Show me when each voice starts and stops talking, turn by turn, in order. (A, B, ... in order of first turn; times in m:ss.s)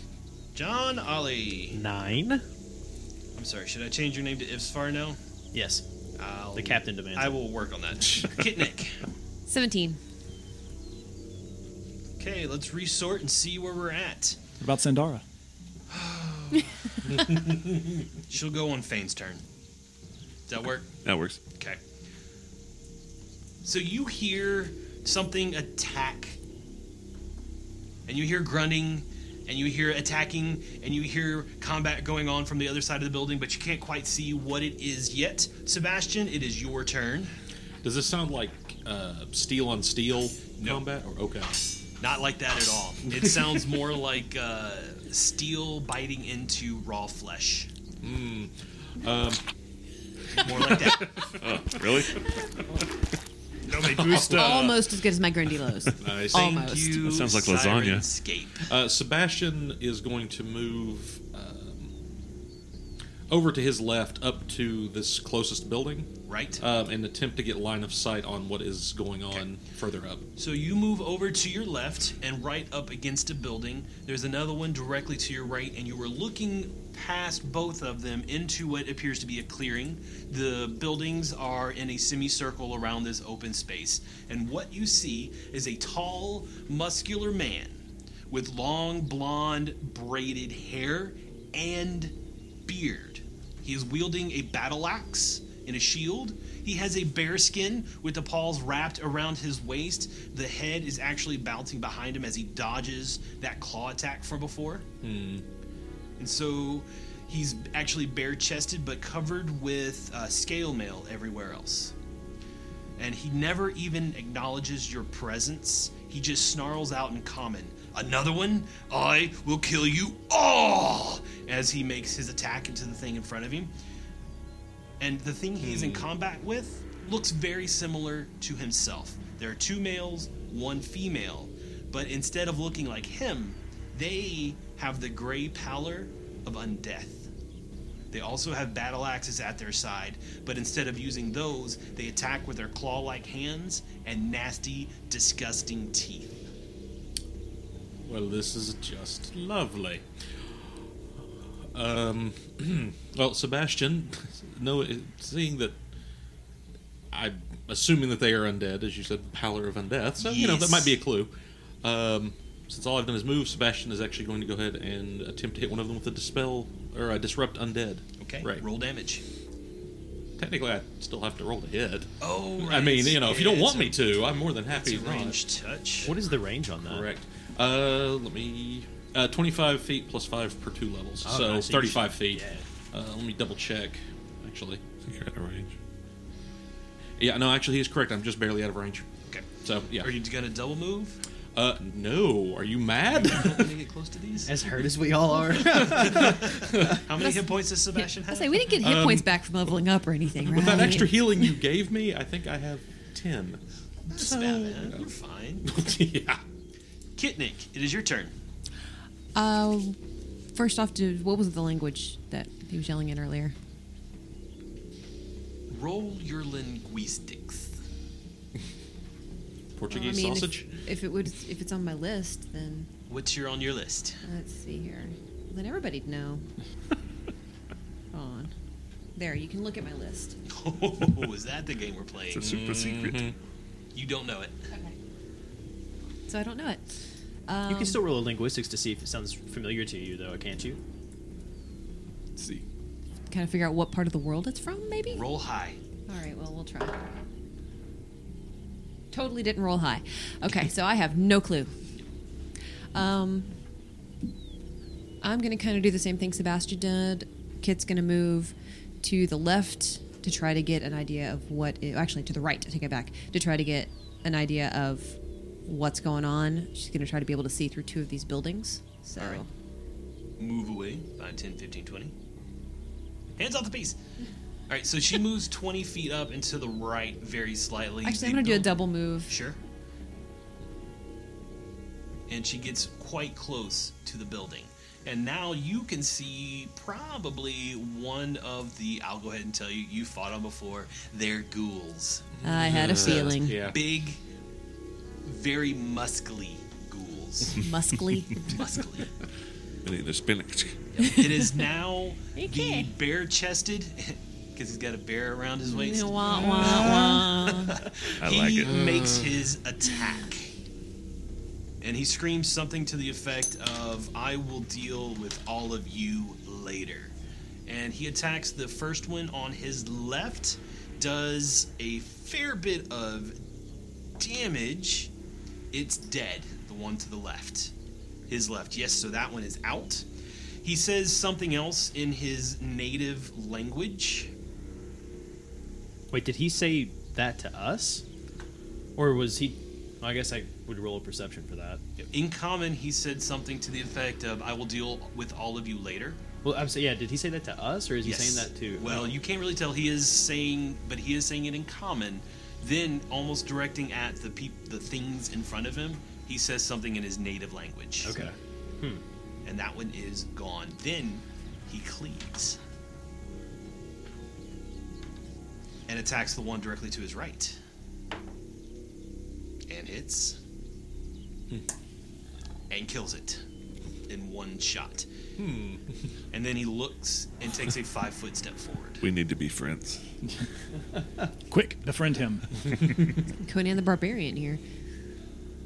0:00.5-0:01.8 A
0:01.7-0:02.4 B
0:03.4-0:05.2 A
0:05.5-0:05.8 B
0:06.2-0:09.0 A
0:06.6-0:07.4 B
0:09.5-0:10.0 C
0:12.2-0:14.4 A
0:14.6-0:15.2 D
0:15.9-0:19.4 A
0:20.5-0:20.9 A
0:21.0-0:21.4 E
0:21.6-0:21.8 A
0:23.6-0:26.4 A
0:28.1-0:37.3 A
0:37.8-0:41.6 F
0:40.6-0:40.8 A
0:42.0-0:47.7 A
0:43.1-0:43.4 F
0:48.0-0:49.4 F
0:50.4-0:51.3 A
0:50.5-0:51.8 F
0:51.3-0:52.2 E
0:53.7-0:54.8 A
0:53.7-0:54.8 F
0:54.2-0:57.1 C
0:56.0-0:56.7 F
0:56.3-0:58.7 A
0:57.0-0:58.1 E
0:58.7-1:01.9 F
1:03.3-1:10.2 F
1:06.3-1:06.6 A
1:10.4-1:32.2 A
1:32.7-1:44.9 A
1:45.0-1:45.4 F
1:46.2-1:51.9 A
1:53.0-2:03.7 A
2:05.0-2:17.3 A
2:05.6-2:06.1 F
2:18.1-2:26.4 A
2:28.0-2:30.0 F
2:31.7-2:35.8 F
2:37.1-2:48.7 F
2:40.2-2:41.0 A
2:48.2-2:49.2 A
2:50.4-2:55.4 F
2:52.2-2:56.1 A
2:56.0-2:57.1 B
2:56.8-3:04.8 F
3:01.2-3:02.7 B
3:05.0-3:05.8 E
3:07.2-3:09.1 F
3:09.3-3:11.2 A
3:09.6-3:10.1 F
3:11.6-3:13.8 F
3:13.2-3:14.7 A
3:14.5-3:16.8 B
3:16.0-3:18.7 A
3:16.5-3:17.0 F
3:17.2-3:21.6 C
3:18.8-3:19.3 F
3:20.4-3:25.1 F
3:24.1-3:25.7 A
3:25.6-3:26.4 F
3:27.2-3:28.3 A
3:29.4-3:30.0 C
3:30.5-3:33.6 C
3:35.7-3:37.8 A
3:39.8-3:40.7 F
3:39.9-3:42.9 C
3:43.1-3:44.2 A
3:44.2-3:46.4 C
3:48.1-3:48.5 C
3:49.2-3:50.4 C
3:50.5-3:52.5 A
3:52.3-3:53.3 E
3:52.4-3:53.4 F
3:53.9-3:54.6 A
3:54.7-3:55.0 C
3:56.3-3:56.8 C
3:57.5-3:58.0 C
3:57.7-4:00.8 B
4:02.4-4:02.6 D
4:03.3-4:05.2 C
4:05.1-4:05.8 A
4:06.1-4:07.0 C
4:09.1-4:11.7 C
4:12.9-4:13.5 C
4:15.2-4:29.5 C
4:29.2-4:29.4 A
4:30.4-4:32.1 A
4:33.4-4:34.0 A
4:34.7-4:39.6 A
4:38.0-4:39.3 C
4:42.3-4:54.2 A
4:52.4-4:53.8 F
4:52.4-4:53.6 C
4:55.2-4:57.6 A
4:57.6-4:58.6 C
4:58.4-4:59.1 A
4:59.8-5:01.2 E
5:01.0-5:10.5 A
5:02.4-5:02.9 C
5:05.6-5:07.8 C
5:06.4-5:07.0 F
5:08.2-5:08.9 E
5:08.7-5:09.4 F
5:11.8-5:17.1 A
5:17.7-5:23.4 A
5:24.2-5:25.1 A
5:25.7-5:27.7 A
5:28.3-5:30.1 A
5:30.6-5:34.3 A
5:36.1-5:38.0 B
5:39.0-5:41.8 B
5:42.0-5:46.2 A
5:46.4-5:49.1 B
5:48.0-5:58.2 A
5:58.0-5:59.0 B
5:59.4-6:02.6 A
6:05.9-6:07.6 A
6:09.7-6:10.4 A
6:12.7-6:13.4 A
6:14.1-6:15.1 A
6:15.4-6:15.8 F
6:16.3-6:19.0 A
6:19.0-6:20.0 E
6:21.5-6:22.9 D
6:23.3-6:24.6 C